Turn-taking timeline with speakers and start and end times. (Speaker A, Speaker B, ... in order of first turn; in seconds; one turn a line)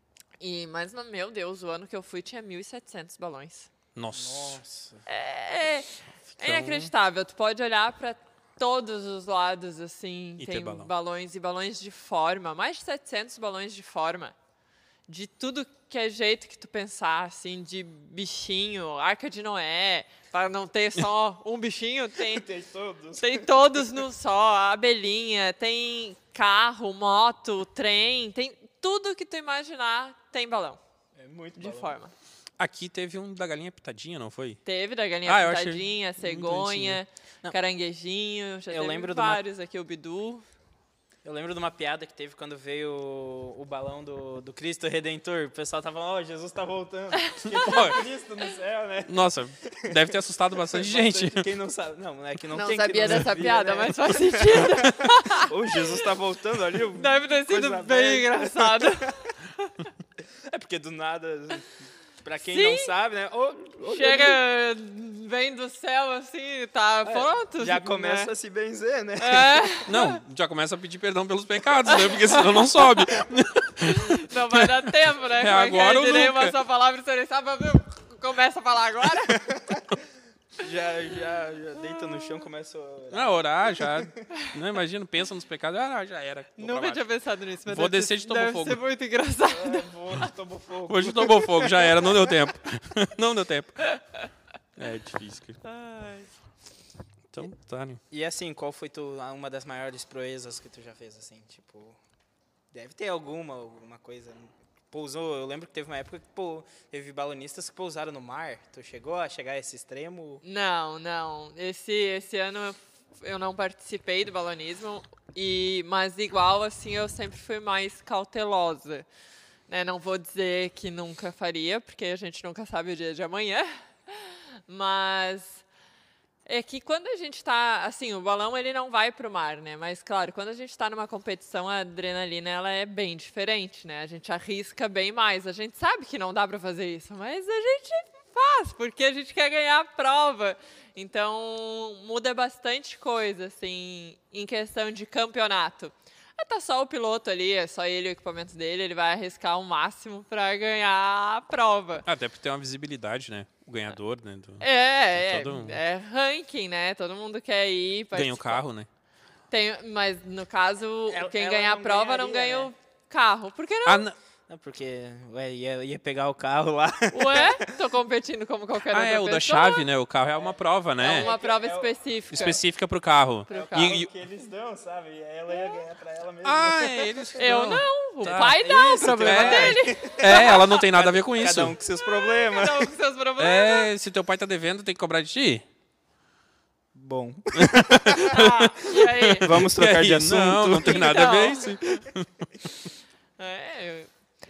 Speaker A: 0.4-3.7
Speaker B: 4.0-4.6
Speaker C: 4.1-5.0
Speaker A: 5.1-14.3
Speaker B: 6.3-6.9
Speaker B: 10.4-10.9
Speaker A: 15.1-22.5
Speaker C: 22.3-23.5
Speaker A: 23.2-30.8
Speaker C: 31.2-31.9
Speaker A: 31.6-32.1
Speaker B: 32.6-34.6
Speaker A: 34.7-40.4
Speaker B: 35.3-37.0
Speaker C: 38.7-39.4
Speaker C: 41.2-59.3
Speaker B: 47.5-48.0
Speaker B: 49.1-51.5
Speaker A: 52.5-56.0
Speaker A: 57.0-59.7
Speaker C: 60.5-64.4
Speaker A: 62.5-62.9
Speaker A: 63.9-68.3
Speaker C: 67.0-69.8
Speaker A: 69.2-70.2
Speaker B: 69.9-76.6
Speaker A: 71.9-72.8
Speaker A: 73.9-79.5
Speaker C: 79.3-79.8
Speaker C: 80.6-84.1
Speaker B: 83.1-87.0
Speaker A: 86.6-89.9
Speaker B: 87.7-88.8
Speaker C: 89.5-92.1
Speaker B: 90.9-93.9
Speaker A: 93.9-94.2
Speaker B: 94.8-95.6
Speaker A: 95.6-96.3
Speaker B: 97.3-98.0
Speaker C: 98.1-102.0
Speaker C: 102.7-110.4
Speaker A: 110.4-119.1
Speaker A: 119.7-125.6
Speaker A: 126.5-152.1
Speaker B: 152.1-155.8
Speaker A: 154.6-158.6
Speaker B: 158.1-158.9
Speaker A: 159.5-164.1
Speaker C: 161.1-162.7
Speaker B: 163.8-164.2
Speaker C: 164.5-167.7
Speaker A: 167.1-169.9
Speaker B: 168.8-171.3
Speaker C: 170.4-171.9
Speaker A: 171.0-172.6
Speaker B: 172.3-174.1
Speaker A: 173.5-173.9
Speaker C: 173.5-177.3
Speaker A: 175.5-175.8
Speaker B: 176.4-181.8
Speaker A: 177.4-180.8
Speaker C: 178.2-182.9
Speaker A: 182.0-183.9
Speaker B: 183.4-185.6
Speaker C: 186.9-188.5
Speaker B: 187.5-192.5
Speaker A: 188.3-189.6
Speaker C: 189.4-191.3
Speaker A: 190.8-191.8
Speaker A: 193.4-194.1